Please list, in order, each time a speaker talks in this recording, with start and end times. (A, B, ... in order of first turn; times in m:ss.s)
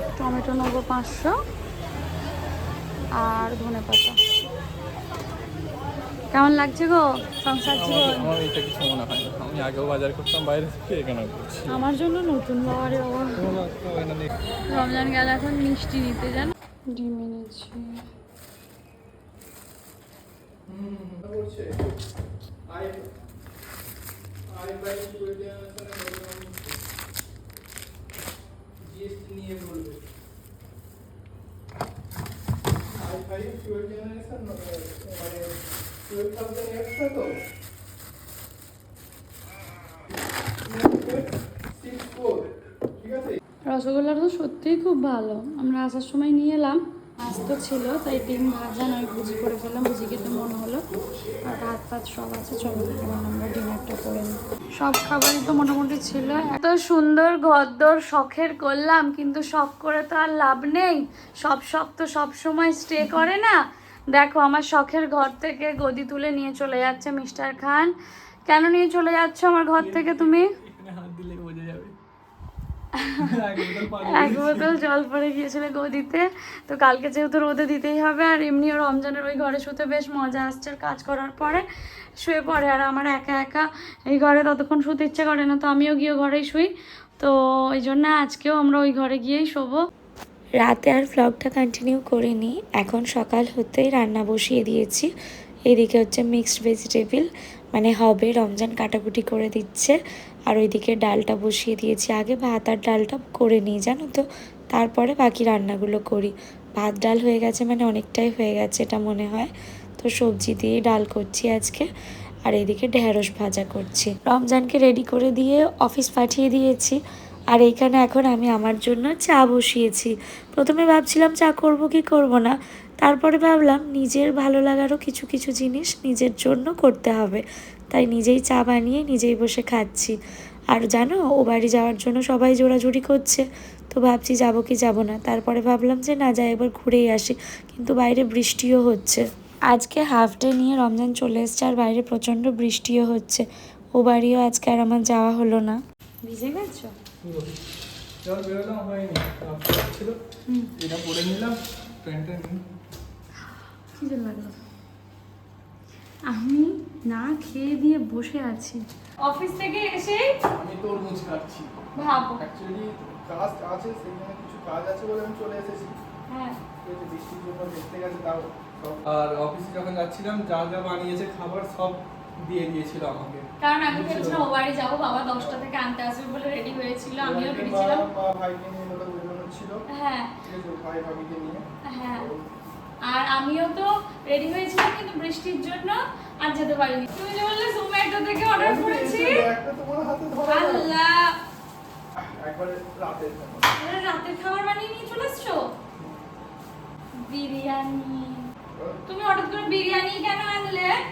0:00.2-0:01.4 A
0:03.2-0:04.2 A
0:06.3-0:08.3 A
0:07.8-0:11.7 B
0:11.7-0:13.4 A
0:13.4-0:14.3 B
0:14.7-0:18.0 A
0:20.7-0:21.7 B
0:22.7-0:23.1 B
0:24.5-0:26.8 B
0:28.8-0:30.0 B
0:32.9-0:35.4 B
0:36.0-0:37.3 B
0:40.6-0:43.4 B
0:43.7-0:50.8 A
0:51.4-1:03.6 A
1:04.1-1:07.9 A
1:08.5-1:10.5 A
1:09.8-1:12.0 B
1:13.0-1:13.2 A
1:13.2-1:14.7 B
1:14.0-1:21.6 A
1:22.2-1:29.8 A
1:30.6-1:35.1 C
1:35.7-1:40.0 C
1:40.5-1:51.9 C
1:52.4-1:57.0 C
1:57.5-2:10.2 C
2:10.7-2:25.8 C
2:26.2-2:27.0 A
2:27.2-2:27.5 B
2:28.2-2:30.2 B
2:30.8-2:32.6 B
2:33.9-2:34.5 A
2:36.2-2:40.2 A
2:40.5-2:46.0 B
2:42.0-2:42.4 A
2:46.3-2:46.6 A
2:46.8-2:54.5 B
2:53.6-2:58.0 A
2:55.4-2:55.6 B
2:57.2-2:59.8 B
2:59.9-3:00.3 A
3:00.4-3:01.6 B
3:01.8-3:02.3 A
3:03.0-3:09.5 A
3:08.6-3:10.9 B
3:10.5-3:11.4 A
3:12.2-3:13.7 B
3:13.8-3:15.7 A
3:16.0-3:16.2 B
3:17.2-3:18.5 A
3:19.1-3:21.0 A